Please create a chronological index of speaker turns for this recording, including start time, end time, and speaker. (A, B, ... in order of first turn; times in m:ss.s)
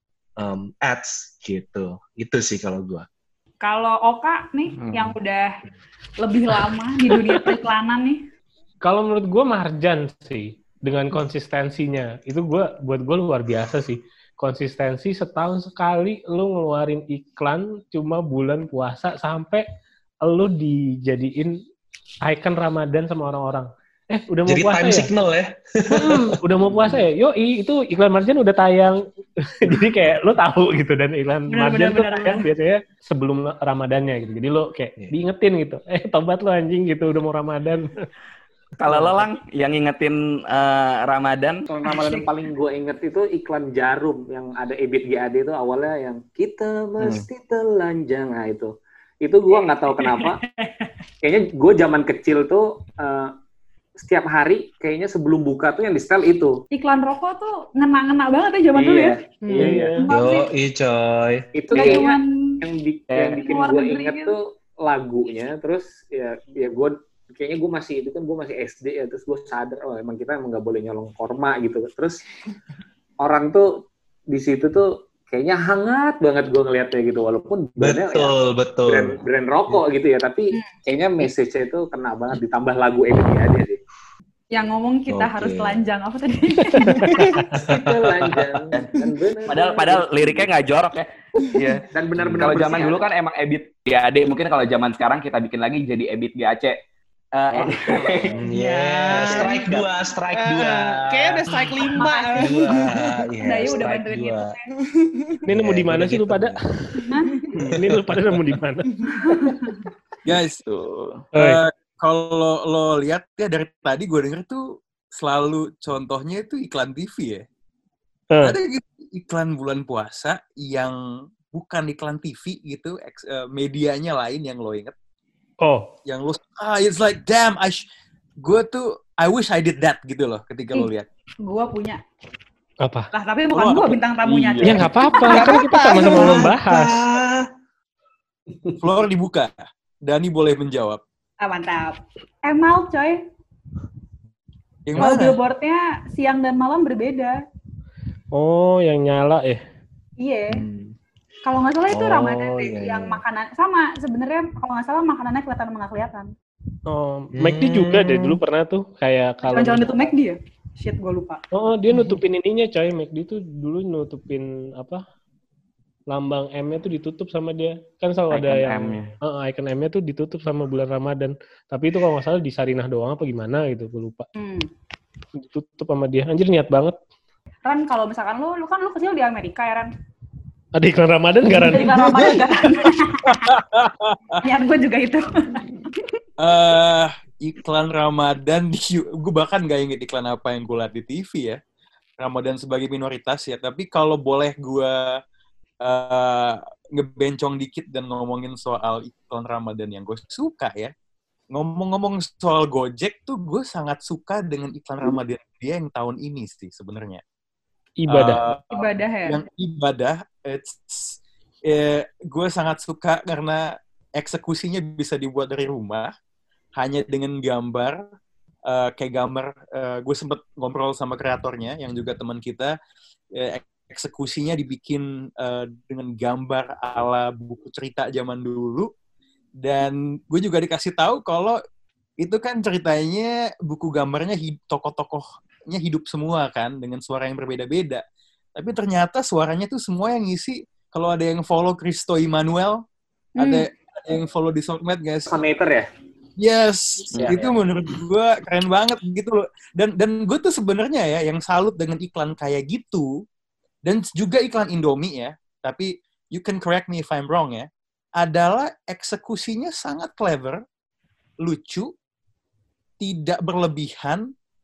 0:00.4-0:03.0 A
0:03.6-0:05.6 B
0:06.2-0:08.2 B
0:08.8-0:19.6 C
0:20.2-0:21.6 C
0:22.2-0:25.1 C
0:24.5-0:27.0 A
0:25.9-0:37.9 C
0:31.5-0:32.4 B
0:38.8-0:41.6 D
0:41.7-0:50.4 E
0:41.9-0:42.3 B
0:51.2-0:53.3 E
0:54.0-0:56.6 E
0:56.7-1:00.5 B
0:58.7-0:59.2 D
0:59.5-1:00.1 C
0:59.5-0:59.8 E
1:00.1-1:01.5 A
1:01.6-1:12.2 E
1:01.7-1:02.6 B
1:03.1-1:03.5 D
1:03.4-1:04.4 B
1:13.2-1:18.3 E
1:17.8-1:19.2 A
1:18.8-1:23.8 E
1:24.5-1:27.3 B
1:25.1-1:25.8 A
1:26.9-1:27.4 C
1:27.6-1:30.5 E
1:27.6-1:28.5 A
1:28.7-1:36.8 D
1:31.9-1:33.0 E
1:32.2-1:32.4 A
1:37.3-1:38.4 D
1:38.3-1:41.5 A
1:38.5-1:39.8 F
1:39.2-1:39.5 D
1:40.3-1:43.1 F
1:41.9-1:42.9 B
1:42.4-1:44.5 A
1:43.4-1:44.6 B
1:44.8-1:45.4 F
1:45.5-1:46.6 A
1:45.5-1:47.0 C
1:47.0-1:47.3 B
1:47.6-1:48.3 A
1:47.6-1:49.6 C
1:49.2-1:49.8 B
1:50.2-1:50.6 G
1:50.6-1:51.2 D
1:51.3-1:51.6 C
1:51.3-1:57.4 G
1:58.4-2:04.9 G
2:05.6-2:05.9 C
2:06.0-2:07.8 G
2:08.4-2:11.0 G
2:11.4-2:12.0 B
2:12.8-2:13.1 C
2:13.1-2:15.5 B
2:13.5-2:14.0 G
2:14.2-2:15.5 D
2:14.6-2:17.0 C
2:15.3-2:16.4 F
2:15.9-2:17.5 A
2:18.8-2:19.5 G
2:20.0-2:21.0 G
2:21.4-2:23.2 B
2:24.8-2:25.4 G
2:25.0-2:27.4 B
2:28.3-2:29.6 C
2:30.2-2:30.6 B
2:30.5-2:30.9 A
2:31.4-2:36.3 B
2:31.9-2:33.2 A
2:36.9-2:40.1 C
2:37.3-2:38.4 A
2:39.4-2:41.4 B
2:41.5-2:45.0 C
2:46.1-2:54.3 C
2:48.3-2:49.2 D
2:54.4-2:54.7 B
2:55.4-2:56.9 C
2:57.6-2:59.9 B
3:00.8-3:02.3 C
3:01.6-3:03.5 B
3:02.1-3:02.5 G
3:03.2-3:04.4 G
3:04.4-3:05.6 B
3:06.4-3:11.6 G
3:12.2-3:15.2 G
3:15.8-3:20.9 G
3:21.5-3:27.2 G
3:28.0-3:28.5 C
3:28.1-3:36.1 G
3:28.7-3:29.4 B
3:36.8-3:38.0 G
3:38.6-3:42.7 G
3:43.3-3:48.9 G
3:49.6-3:51.6 G
3:52.2-3:58.0 G
3:58.6-4:02.8 G
4:03.4-4:03.7 B
4:03.4-4:05.3 G
4:05.3-4:05.9 E
4:06.4-4:13.1 G
4:07.2-4:07.5 D
4:13.8-4:17.7 G
4:18.2-4:20.6 G
4:21.4-4:21.9 G
4:23.0-4:24.3 G